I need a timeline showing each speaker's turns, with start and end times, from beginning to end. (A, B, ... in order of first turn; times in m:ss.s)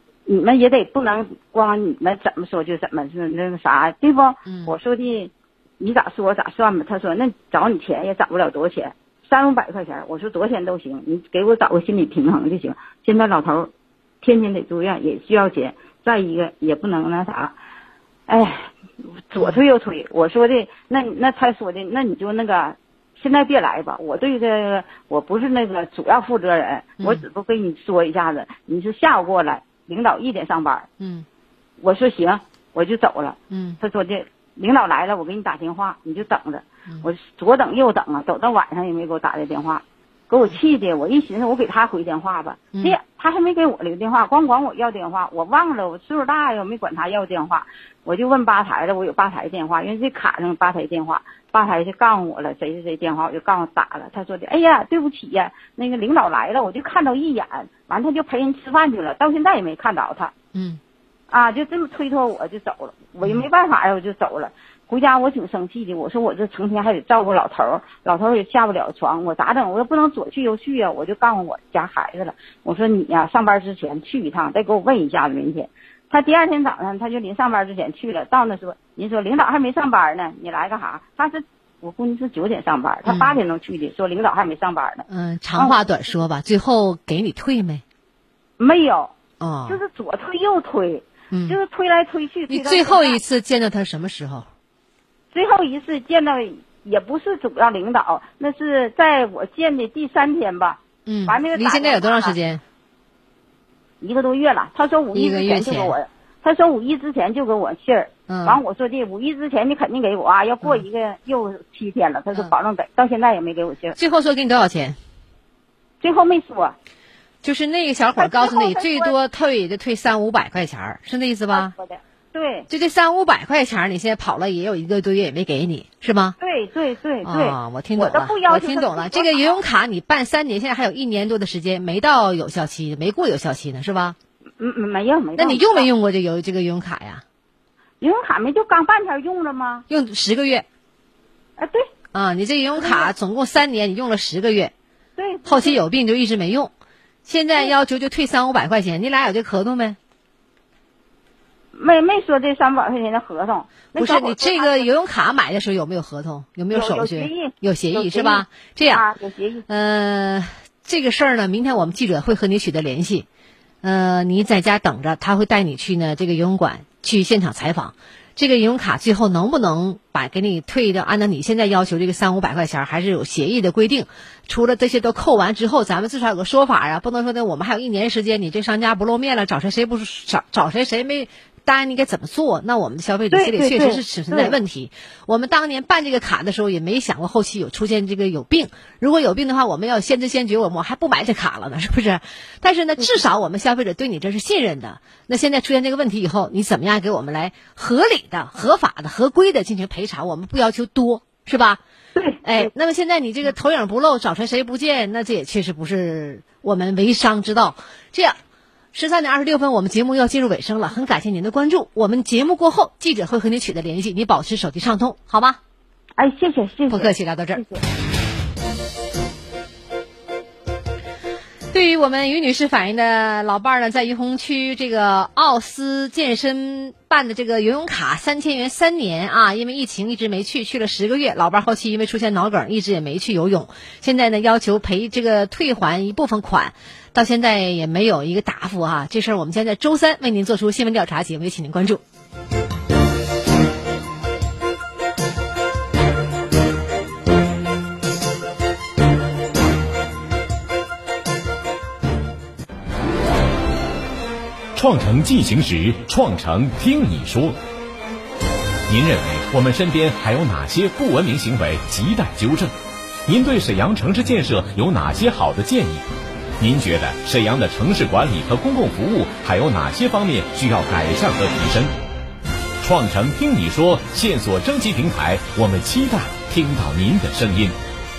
0:00.3-0:13.7 A
0:04.5-0:04.7 B
0:14.2-0:17.6 A
0:18.3-0:18.7 A
0:19.3-0:30.9 A
0:19.4-0:19.6 B
0:31.0-0:31.3 B
0:31.8-1:00.3 A
0:33.5-0:33.8 B
1:00.5-1:00.8 B
1:01.3-1:25.8 A
1:23.1-1:23.4 B
1:25.1-1:27.8 B
1:28.6-1:29.1 A
1:29.4-1:29.8 B
1:29.7-1:33.2 A
1:31.3-1:31.6 B
1:32.5-1:34.5 B
1:35.3-1:42.4 A
1:41.1-1:42.6 B
1:44.0-1:54.0 A
1:45.1-1:45.9 B
1:48.3-1:48.6 B
1:54.0-1:55.0 B
1:56.0-1:56.8 A
1:57.4-2:01.7 B
1:58.2-1:59.1 A
2:01.5-2:02.7 A
2:02.7-2:06.4 B
2:06.4-2:09.6 A
2:07.2-2:14.2 B
2:14.6-2:15.9 A
2:15.4-2:17.2 B
2:18.0-2:19.8 A
2:19.9-2:20.6 B
2:21.6-2:21.9 A
2:22.1-2:24.7 B
2:22.8-2:23.1 A
2:25.2-2:25.8 A
2:25.4-2:26.7 B
2:27.3-2:30.0 B
2:31.7-2:34.9 A
2:34.0-2:39.0 B
2:36.7-2:39.6 A
2:39.7-2:43.3 B
2:43.8-3:21.8 B
3:03.3-3:04.6 A
3:22.2-3:22.7 A
3:22.4-3:28.4 B
3:28.9-3:35.6 B
3:36.2-3:37.8 A
3:36.9-3:37.6 B
3:41.7-4:02.0 B
4:14.7-4:17.6 C
4:18.9-4:22.7 C
4:23.3-4:26.1 C
4:26.6-4:31.9 C
4:32.8-4:37.8 C